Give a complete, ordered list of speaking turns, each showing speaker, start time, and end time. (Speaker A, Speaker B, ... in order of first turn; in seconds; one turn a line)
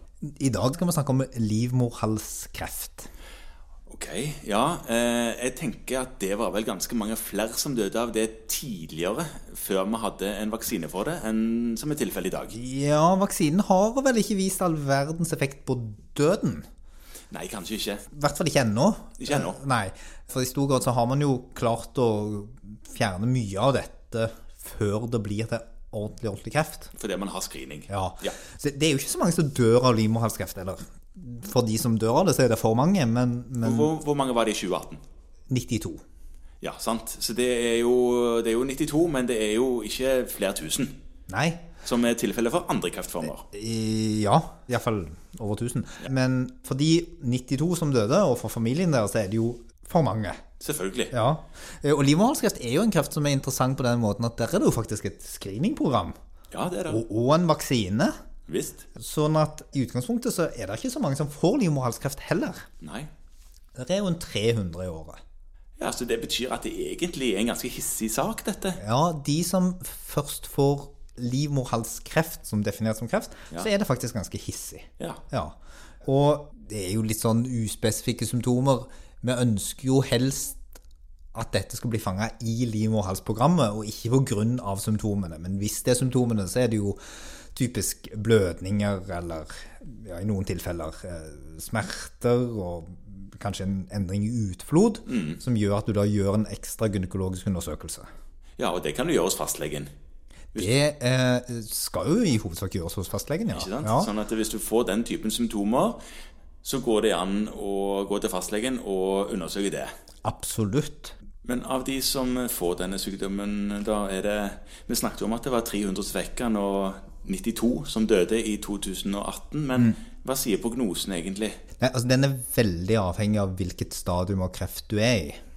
Speaker A: 0.2-3.1
Speaker B: 3.9-12.6
Speaker A: 12.5-16.6
Speaker B: 17.3-18.1
Speaker A: 18.1-26.9
Speaker B: 19.2-19.6
Speaker B: 26.9-28.4
Speaker A: 27.9-33.9
Speaker B: 33.6-35.0
Speaker A: 35.5-36.0
Speaker B: 36.6-40.9
Speaker A: 41.3-41.6
Speaker B: 41.8-43.5
Speaker A: 43.5-50.4
Speaker B: 50.6-51.1
Speaker A: 51.1-56.1
Speaker B: 56.5-57.0
Speaker A: 56.9-58.1
Speaker B: 58.5-58.9
Speaker A: 59.0-62.7
Speaker B: 62.8-63.1
Speaker A: 63.8-65.2
Speaker B: 65.8-68.8
Speaker A: 68.8-80.6
Speaker A: 81.3-87.0
Speaker A: 87.5-98.1
Speaker B: 95.1-95.4
Speaker B: 98.6-99.9
Speaker A: 100.5-104.1
Speaker B: 103.5-106.0
Speaker B: 106.6-109.9
Speaker A: 110.2-111.1
Speaker B: 111.4-121.6
Speaker A: 121.8-125.4